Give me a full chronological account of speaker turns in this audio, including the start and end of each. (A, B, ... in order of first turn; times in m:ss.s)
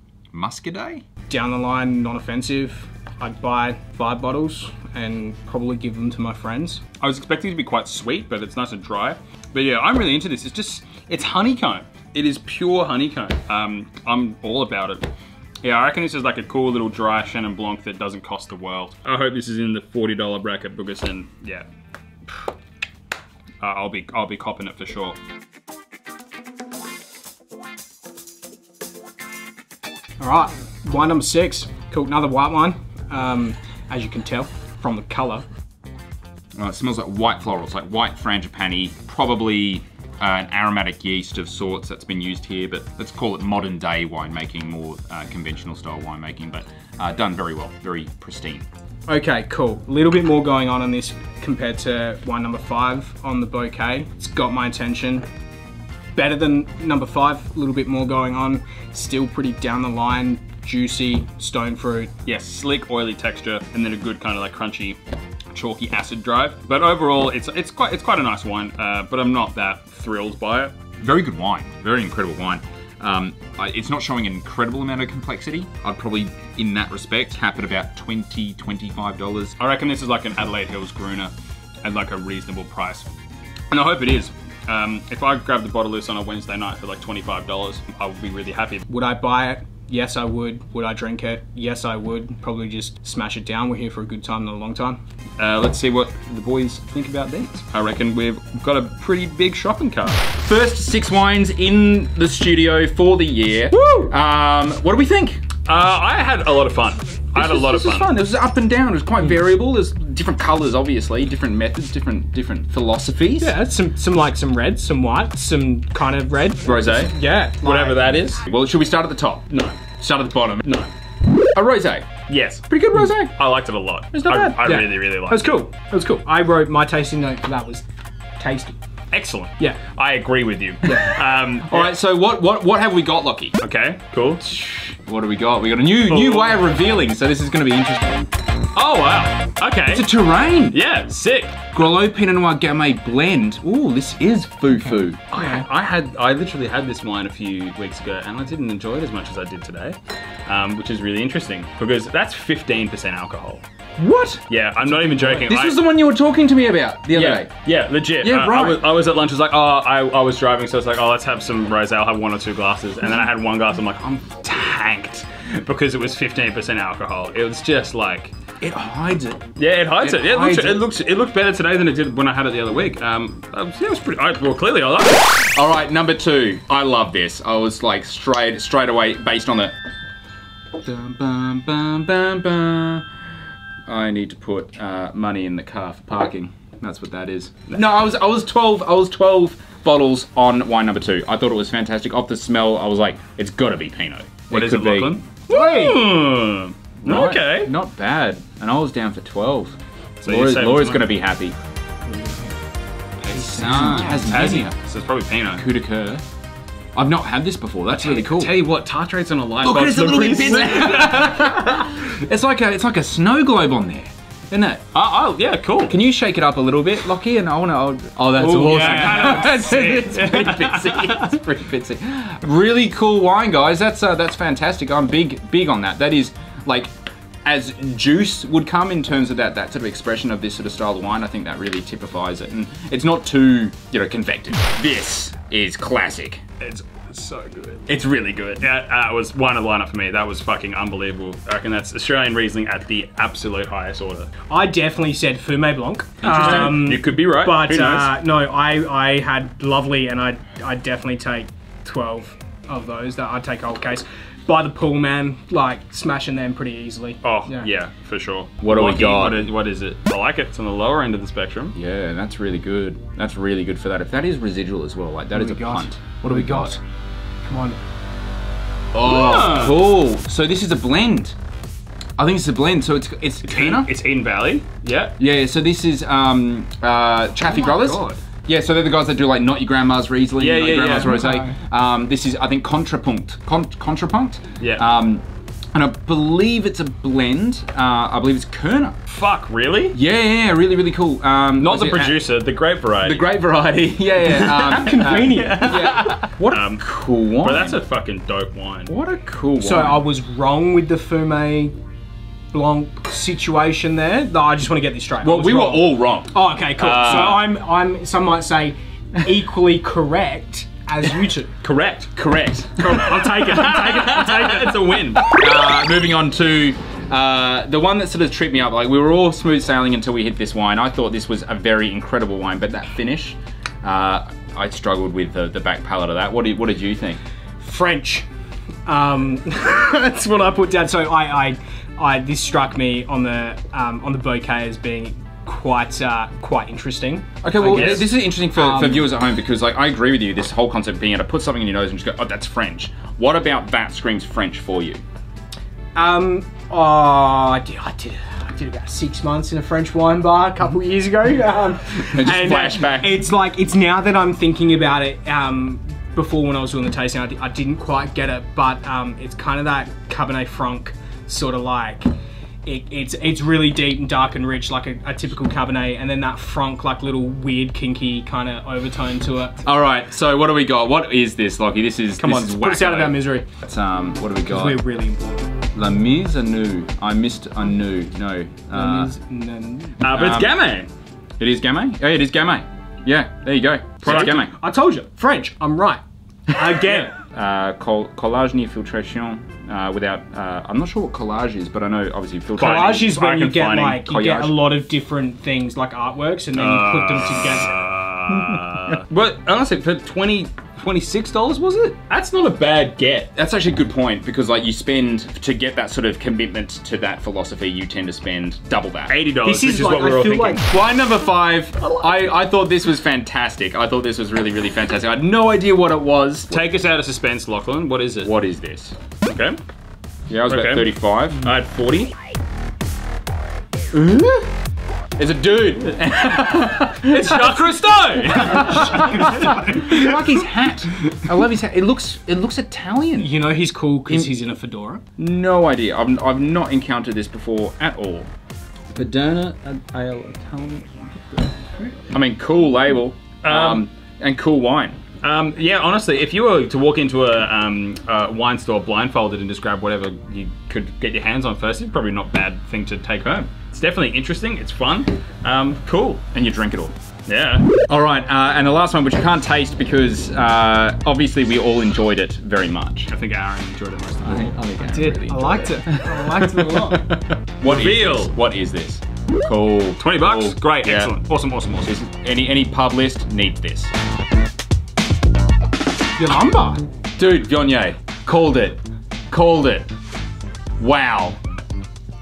0:00.3-0:01.0 A
0:01.3-0:06.8 B
0:07.0-0:15.1 C
0:15.6-0:21.7 C
0:23.6-0:25.2 C
0:30.2-0:35.5 B
0:36.6-0:48.6 A
0:49.1-0:55.3 B
0:56.2-1:02.1 B
1:02.3-1:05.0 C
1:05.5-1:10.8 C
1:11.0-1:19.5 A
1:19.6-1:23.1 C
1:23.7-1:28.8 C
1:28.9-1:35.0 B
1:35.4-1:40.2 C
1:40.3-1:45.4 A
1:43.8-1:44.1 C
1:45.7-1:48.1 C
1:47.4-1:53.6 A
1:53.4-1:58.2 B
1:56.6-1:57.1 A
1:57.6-1:58.4 C
1:58.4-2:00.7 A
1:59.5-1:59.8 C
2:00.6-2:00.9 C
2:01.5-2:03.3 A
2:02.3-2:05.5 C
2:04.1-2:07.9 B
2:08.4-2:08.8 B
2:09.1-2:11.9 C
2:11.6-2:13.6 A
2:13.6-2:14.4 C
2:14.4-2:18.3 A
2:16.1-2:16.7 C
2:18.8-2:20.1 C
2:19.9-2:20.8 A
2:20.7-2:21.7 C
2:21.7-2:25.6 A
2:24.7-2:25.5 B
2:25.3-2:33.6 C
2:34.0-2:34.4 A
2:34.5-2:35.8 C
2:35.1-2:37.5 A
2:37.1-2:48.3 C
2:38.2-2:38.8 A
2:48.6-2:49.5 A
2:49.6-2:55.5 C
2:50.0-2:50.9 A
2:55.5-2:59.8 A
3:00.8-3:03.1 A
3:03.9-3:15.2 A
3:14.5-3:17.7 C
3:15.5-3:16.0 B
3:17.0-3:21.6 A
3:20.2-3:21.1 C
3:23.2-3:25.6 C
3:23.3-3:24.8 A
3:25.5-3:26.2 A
3:27.0-3:28.6 A
3:27.9-3:32.0 C
3:29.6-3:34.8 A
3:34.9-3:36.0 C
3:35.9-3:46.9 A
3:38.4-3:41.3 C
3:47.4-3:56.4 A
3:56.6-3:57.9 C
3:57.9-3:58.7 A
3:58.6-4:04.3 C
4:04.5-4:17.7 B
4:06.2-4:06.9 A
4:06.2-4:08.1 C
4:17.2-4:21.8 C
4:18.6-4:19.5 A
4:21.8-4:26.8 A
4:25.3-4:26.8 B
4:27.4-4:27.8 B
4:28.9-4:31.4 A
4:29.0-4:29.8 C
4:32.2-4:33.9 A
4:33.4-4:35.2 C
4:35.2-4:49.0 A
4:37.5-4:38.2 C
4:40.4-4:41.2 C
4:41.2-4:41.6 B
4:44.6-4:44.8 C
4:49.1-4:50.0 C
4:49.9-4:52.2 A
4:51.6-4:53.4 C
4:53.0-4:56.2 A
4:54.2-4:56.8 C
4:54.6-4:56.6 B
4:56.8-4:57.8 A
4:57.4-4:58.9 C
4:58.9-5:00.0 A
4:59.6-5:01.8 B
5:02.5-5:11.5 B
5:05.2-5:07.5 A
5:11.6-5:12.1 C
5:12.2-5:13.1 A
5:12.8-5:14.8 B
5:13.0-5:15.3 C
5:15.2-5:27.2 A
5:27.6-5:28.3 B
5:28.9-5:39.1 B
5:37.4-5:45.0 A
5:37.7-5:38.1 C
5:46.0-6:02.1 B
5:51.9-5:53.2 A
6:02.6-6:09.6 B
6:09.6-6:14.8 A
6:12.2-6:13.5 B
6:14.5-6:15.5 B
6:15.8-6:19.1 A
6:18.7-6:20.0 B
6:20.0-6:20.9 C
6:20.1-6:20.6 A
6:21.4-6:24.5 A
6:24.0-6:24.4 C
6:24.0-6:27.1 B
6:26.7-6:33.1 A
6:32.6-6:34.1 C
6:32.6-6:37.7 B
6:34.1-6:34.6 A
6:36.6-6:43.3 C
6:43.4-6:49.1 A
6:49.1-6:50.6 C
6:49.4-6:50.6 B
6:50.6-6:56.6 A
6:56.5-6:58.3 C
6:58.2-6:59.0 A
6:59.3-6:59.6 C
7:00.3-7:01.5 A
7:00.5-7:02.1 C
7:03.9-7:04.5 A
7:05.2-7:13.3 A
7:07.0-7:09.6 C
7:08.4-7:10.2 B
7:13.2-7:15.0 B
7:15.2-7:18.3 A
7:18.9-7:21.8 C
7:22.1-7:25.0 A
7:23.4-7:23.9 C
7:25.2-7:36.2 C
7:36.3-7:36.9 A
7:37.3-7:37.7 C
7:37.9-7:43.1 A
7:43.1-7:44.8 C
7:44.2-7:51.2 A
7:44.8-7:47.0 B
7:47.6-7:48.4 C
7:50.0-7:51.9 C
7:51.8-7:53.9 A
7:56.2-7:56.8 B
7:57.2-7:59.9 A
8:00.8-8:01.4 A